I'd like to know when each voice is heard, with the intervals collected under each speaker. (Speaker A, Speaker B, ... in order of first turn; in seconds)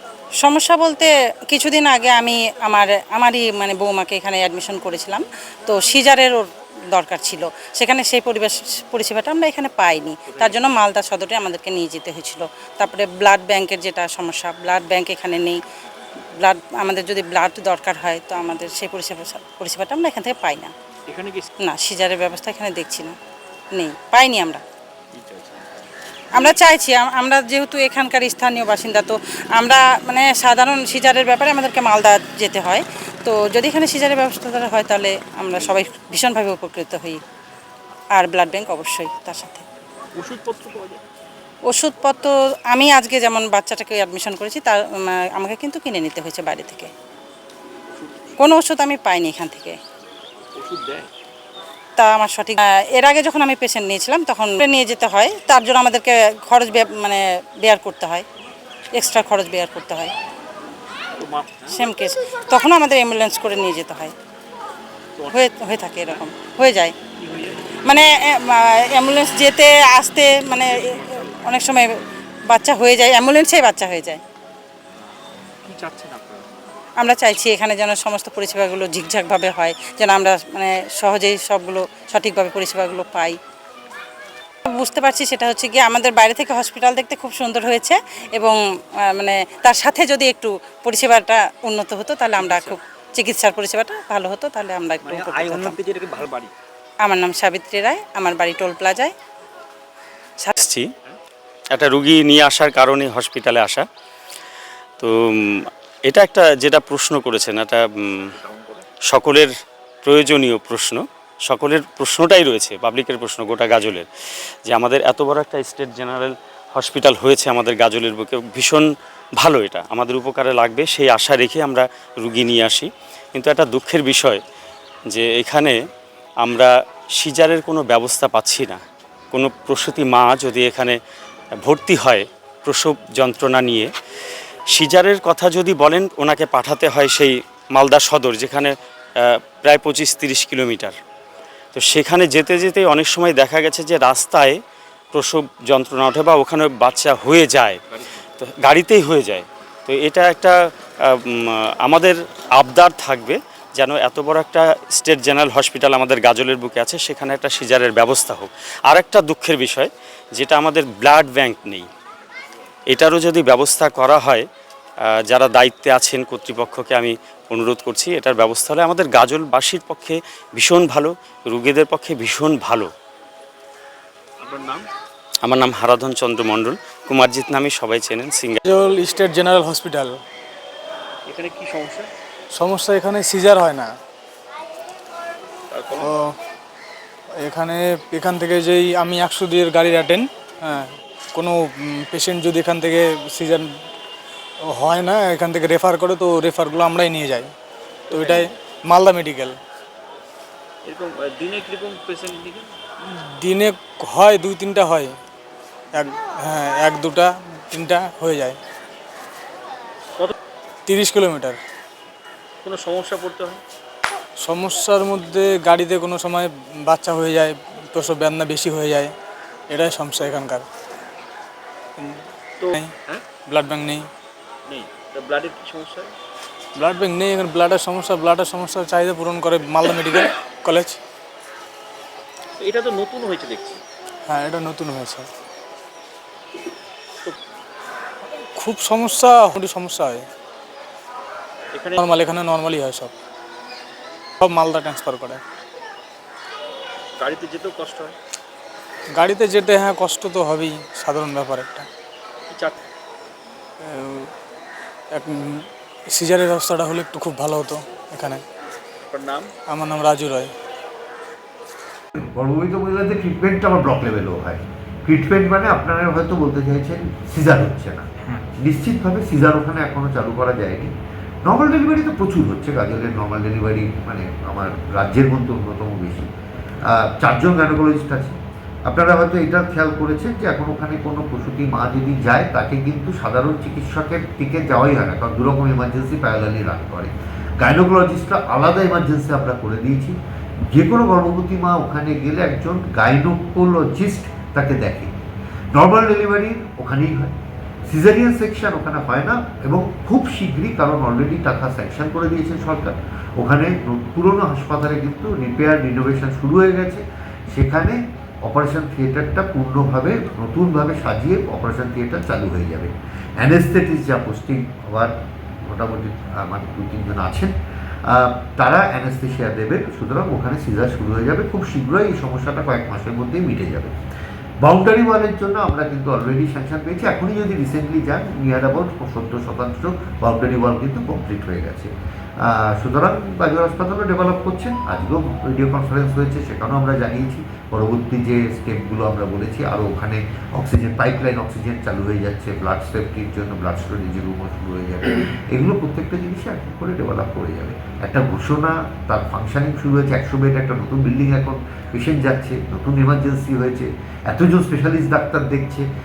Speaker A: 0.4-15.6, 16.4-20.7, 21.6-23.2, 23.8-24.6, 26.4-37.2, 38.2-39.6, 41.7-46.9, 48.4-49.8, 52.0-58.3, 59.0-60.1, 61.7-64.1, 65.3-66.9, 67.8-71.9, 72.5-74.2, 77.0-83.4, 84.7-88.6, 89.1-95.8, 97.0-99.1
Speaker B: 10.3-10.6, 21.1-21.5, 25.1-25.7, 40.2-41.0, 47.9-48.3, 50.6-51.1, 61.2-61.8, 65.2-66.2, 67.2-67.7, 70.7-71.5, 75.7-76.5, 92.4-92.8, 95.0-96.5, 108.3-108.9, 174.4-174.9, 181.3-182.1, 185.7-186.1, 198.1-198.5, 200.8-202.8, 212.6-213.6, 222.6-223.2, 224.7-226.1, 232.6-233.8, 241.7-242.1, 247.2-248.2, 252.5-252.8, 259.0-259.5
Speaker C: 100.6-100.9, 101.7-103.9, 105.0-108.3, 109.1-109.5, 110.0-114.1, 114.7-124.4, 125.1-125.8, 126.4-128.8, 129.3-131.0, 131.6-133.9, 134.7-140.9, 141.7-144.6, 145.1-147.8, 148.4-161.9, 162.9-164.5, 165.1-172.9, 175.4-178.6
Speaker D: 178.6-180.2, 182.5-183.9, 186.0-186.3, 187.4-193.7, 194.6-197.5, 198.1-199.6, 203.1-205.2, 205.9-208.6, 210.9-211.6, 214.4-219.1, 219.7-220.7, 222.0-222.9, 223.5-224.1, 226.8-231.0, 234.3-235.3, 238.6-240.3, 242.0-243.1, 244.4-245.4, 249.1-251.9, 253.8-254.3, 255.1-258.4, 259.7-260.5
Speaker E: 262.2-270.9, 271.4-276.3, 276.8-290.2, 290.7-295.1, 295.7-297.4, 297.9-315.1, 315.6-317.5, 318.1-323.9, 324.6-355.9